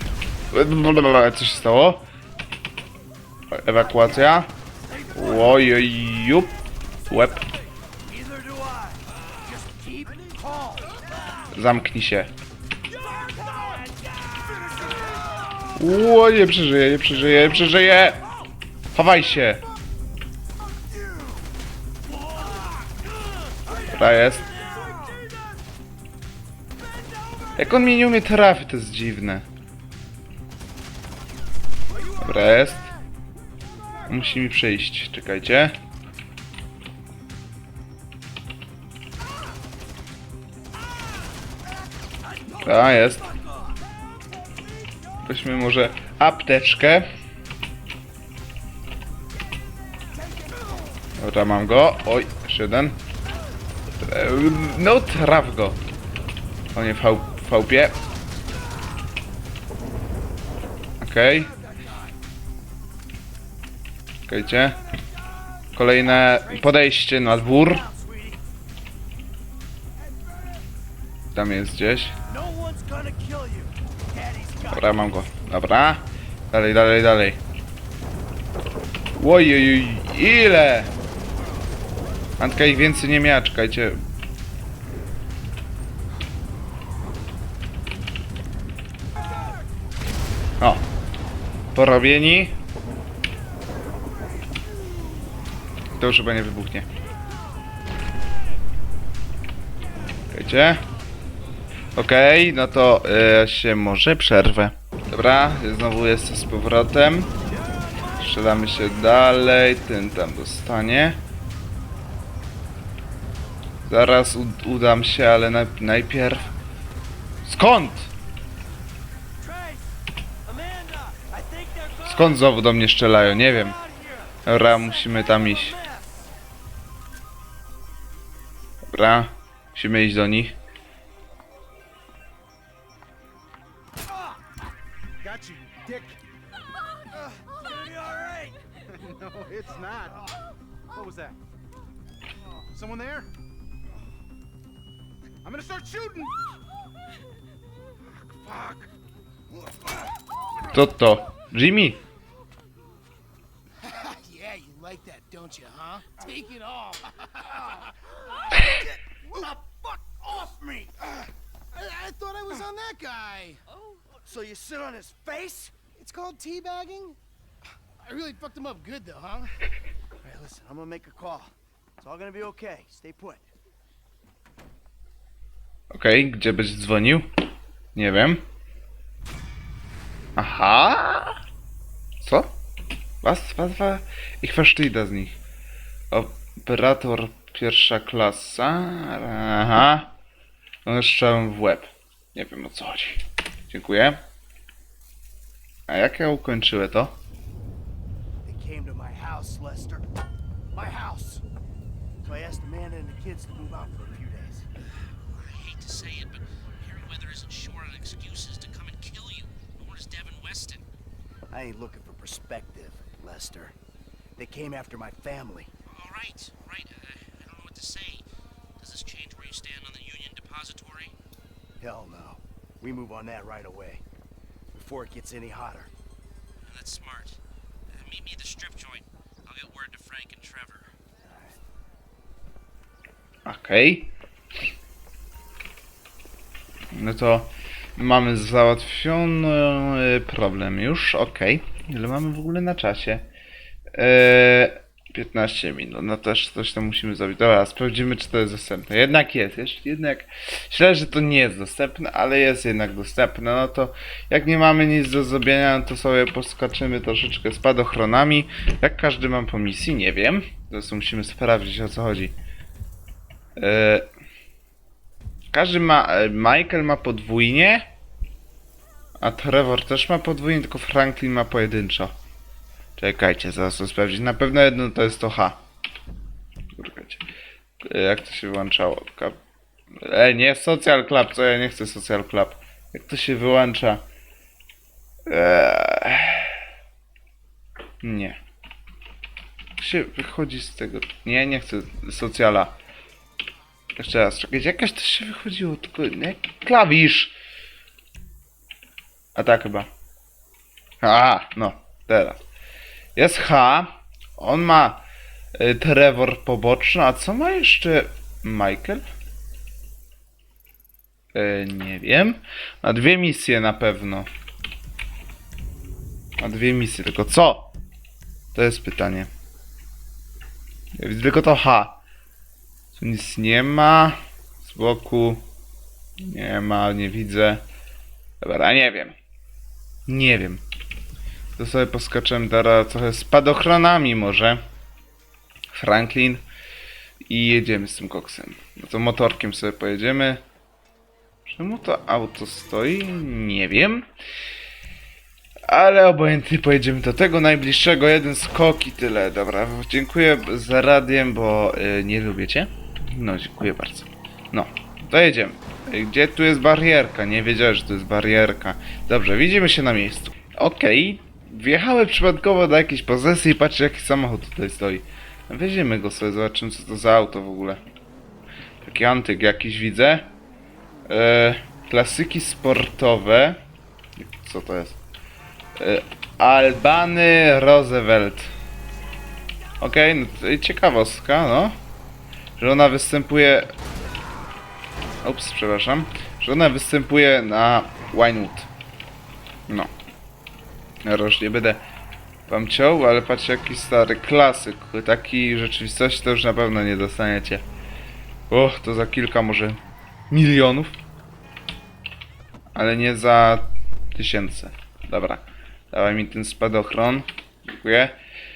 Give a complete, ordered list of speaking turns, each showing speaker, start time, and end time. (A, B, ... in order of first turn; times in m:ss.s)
0:00.5-0:02.1 A
0:03.5-0:04.5 A
0:04.9-0:05.8 B
0:05.1-0:06.5 A
0:07.0-0:11.1 B
0:07.1-0:07.4 A
0:11.5-0:12.3 A
0:12.9-0:15.7 B
0:14.4-0:15.3 C
0:15.8-0:18.2 A
0:17.6-0:18.0 B
0:18.9-0:19.6 A
0:20.9-0:21.4 B
0:22.1-0:22.9 B
0:23.5-0:25.4 B
0:23.9-0:24.5 A
0:27.6-0:29.5 A
0:31.9-0:32.9 B
0:32.2-0:32.9 A
0:34.1-0:35.8 A
0:42.2-0:43.8 B
0:42.6-0:43.3 A
0:45.2-0:47.1 A
0:50.2-0:50.7 B
0:51.2-0:53.0 A
0:54.0-0:55.8 A
0:56.7-0:58.0 A
1:01.0-1:01.5 A
1:01.4-1:02.0 C
1:04.3-1:04.8 A
1:05.8-1:07.8 A
1:05.8-1:08.4 B
1:10.0-1:10.6 C
1:11.3-1:12.2 A
1:12.3-1:15.2 B
1:14.7-1:17.4 A
1:19.2-1:20.9 A
1:22.4-1:24.0 A
1:31.7-1:32.6 A
1:36.0-1:36.9 A
1:40.3-1:40.8 A
1:42.0-1:47.3 A
1:47.5-1:48.5 B
1:48.2-1:51.2 A
1:53.9-1:56.5 A
1:57.4-1:58.1 A
1:59.4-1:59.9 B
2:00.4-2:02.6 B
2:02.1-2:03.8 A
2:03.1-2:06.3 B
2:04.4-2:05.8 A
2:08.9-2:10.6 A
2:15.2-2:16.2 D
2:17.6-2:18.6 B
2:19.3-2:20.2 D
2:20.9-2:21.4 D
2:22.7-2:23.3 D
2:25.4-2:26.3 D
2:28.4-2:28.9 D
2:29.5-2:29.8 C
2:30.7-2:32.0 A
2:33.8-2:39.5 C
2:38.5-2:40.9 B
2:41.7-2:43.6 C
2:44.1-2:45.7 B
2:45.9-2:47.2 C
2:48.0-2:49.6 C
2:50.2-2:53.5 B
2:55.9-2:57.3 A
2:58.0-2:58.4 A
3:00.4-3:01.4 A
3:02.2-3:02.5 A
3:03.2-3:05.4 A
3:06.1-3:10.1 A
3:10.8-3:14.2 A
3:15.9-3:17.2 A
3:18.4-3:20.1 B
3:20.7-3:21.4 B
3:22.2-3:24.7 B
3:25.3-3:30.8 E
3:31.5-3:33.8 B
3:34.4-3:35.7 B
3:35.9-3:38.2 E
3:38.8-3:41.1 E
3:41.8-3:44.0 B
3:44.7-3:45.9 B
3:46.6-3:50.9 E
3:51.2-3:51.6 B
3:53.4-3:54.1 A
3:56.9-4:03.3 A
4:03.9-4:22.4 A
4:23.6-4:24.1 A
4:25.5-4:27.9 A
4:29.2-4:32.1 A
4:33.0-4:35.6 A
4:36.8-4:37.2 A
4:37.8-4:39.4 A
4:40.0-4:44.0 A
4:45.3-4:46.6 A
4:48.0-4:48.4 A
4:49.8-4:52.8 A
4:54.0-4:57.4 A
4:59.4-4:59.9 A
5:01.0-5:02.4 A
5:03.2-5:05.0 A
5:05.6-5:09.0 A
5:11.3-5:14.3 A
5:16.4-5:17.7 A
5:18.5-5:19.3 A
5:21.0-5:22.0 A
5:22.9-5:25.4 A
5:26.2-5:27.6 A
5:28.4-5:29.2 A
5:30.1-5:30.6 A
5:31.6-5:34.6 A
5:35.7-5:36.4 A
5:37.3-5:40.4 A
5:41.5-5:44.1 A
5:45.7-6:07.8 A
6:08.8-6:10.3 A
6:11.1-6:13.6 A
6:14.2-6:15.0 A
6:15.8-6:18.5 A
6:19.8-6:21.8 A
6:22.6-6:23.7 A
6:25.2-6:28.7 A
6:31.0-6:31.8 A
6:32.5-6:37.6 A
6:38.5-6:39.8 A
6:40.3-6:41.0 A
6:42.7-6:48.2 A